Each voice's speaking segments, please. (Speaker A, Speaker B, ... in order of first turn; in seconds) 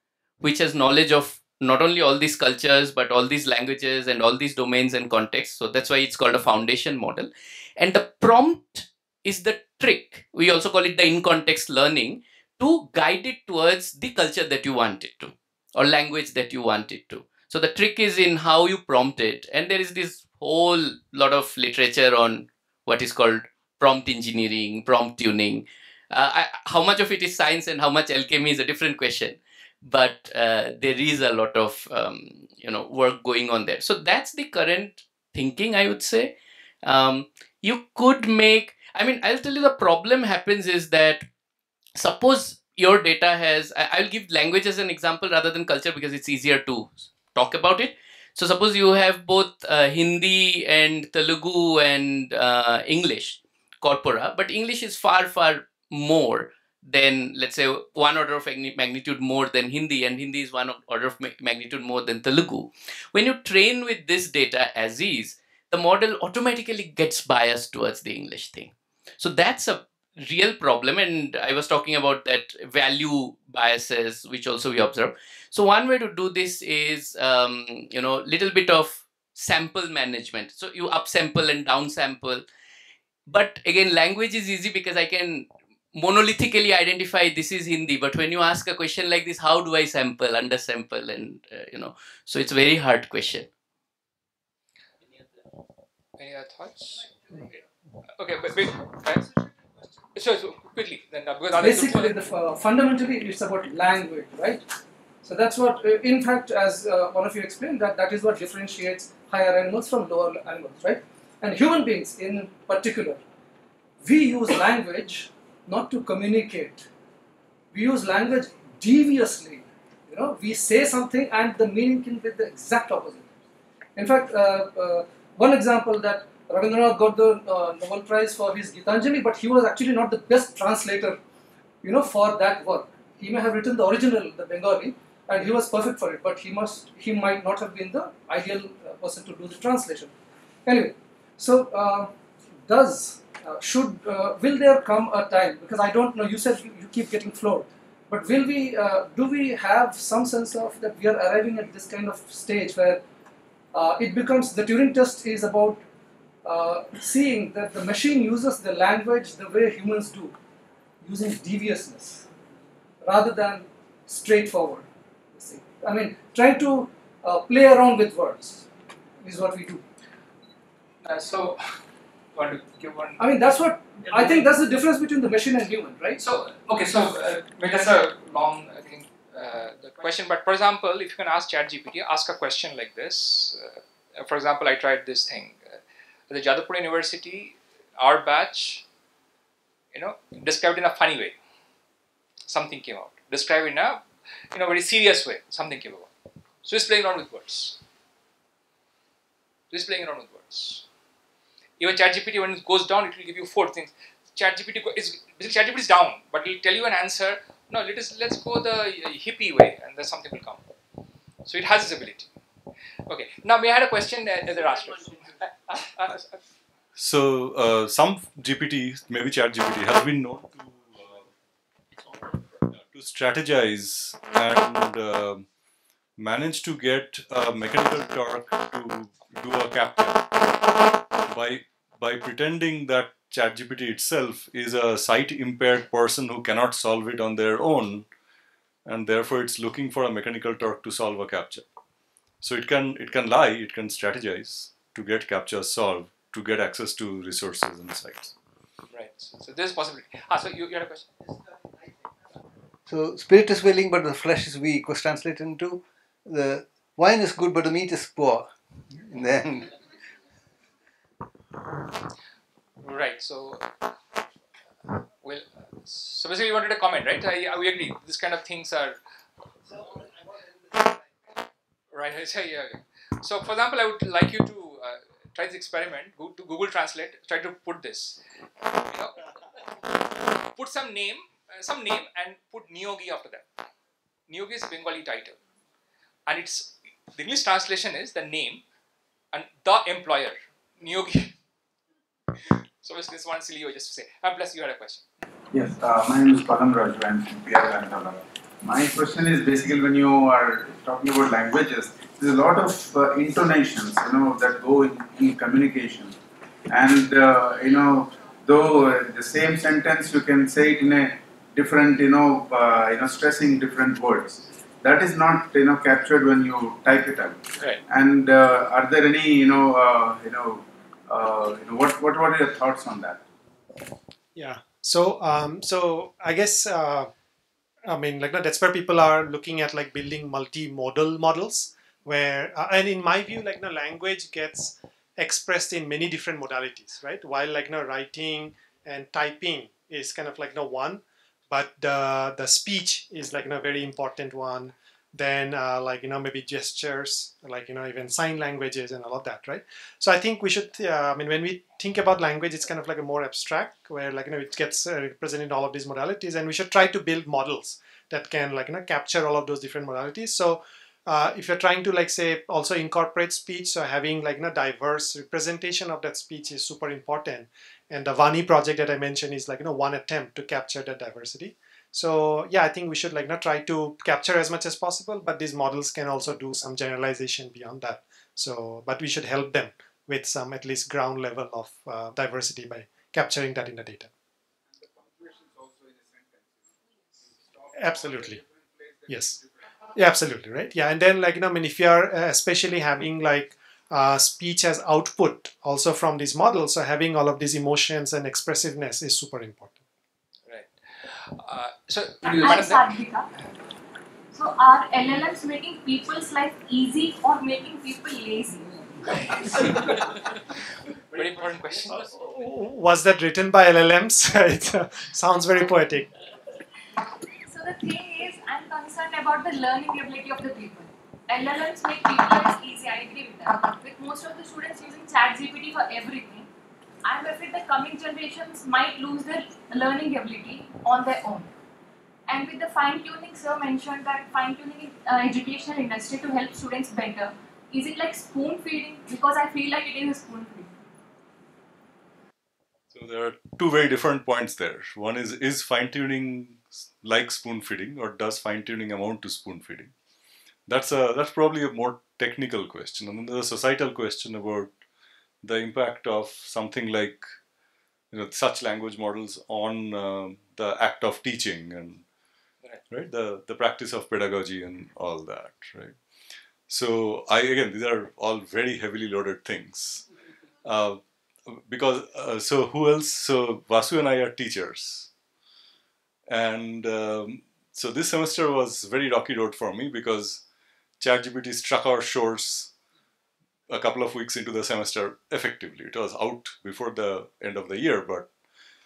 Speaker A: 0.4-36.3, 36.8-41.2, 42.0-82.4, 83.3-93.5
Speaker B: 96.2-99.3, 100.1-102.1, 171.0-171.6, 172.3-173.3, 174.1-174.5, 176.2-188.8, 189.9-191.3, 192.5-196.1, 196.6-197.8, 199.7-200.8, 201.8-210.6, 211.4-212.3, 213.1-216.4, 248.9-251.1, 262.8-263.7, 265.2-269.0, 271.9-278.2, 278.8-279.3, 280.5-283.5, 284.3-285.4, 286.3-288.6, 289.3-291.3, 292.8-295.0, 400.4-402.9, 411.1-412.4
Speaker C: 101.5-104.6, 105.2-113.2, 114.0-116.9, 117.7-123.3, 123.9-131.2, 131.8-140.1, 140.7-153.0, 153.7-155.8, 156.4-160.3, 161.0-162.3, 163.0-168.7, 169.2-169.8, 173.2-176.2
Speaker D: 216.9-221.3, 222.7-225.4, 226.2-230.3, 231.2-238.1, 238.8-241.6, 242.4-248.3, 442.9-449.9, 450.7-454.7, 455.4-457.3, 458.1-462.0, 462.9-465.9, 466.7-470.0, 470.6-475.1, 476.3-480.4, 481.0-482.7, 483.7-488.3
Speaker E: 252.9-259.7
Speaker F: 295.5-306.1, 306.7-323.2
Speaker G: 324.4-327.1, 327.9-384.1, 387.7-388.4, 389.1-389.4, 389.9-399.8, 411.9-416.1
Speaker H: 402.2-403.3, 404.3-409.7, 417.4-426.5, 427.0-431.5, 432.3-440.7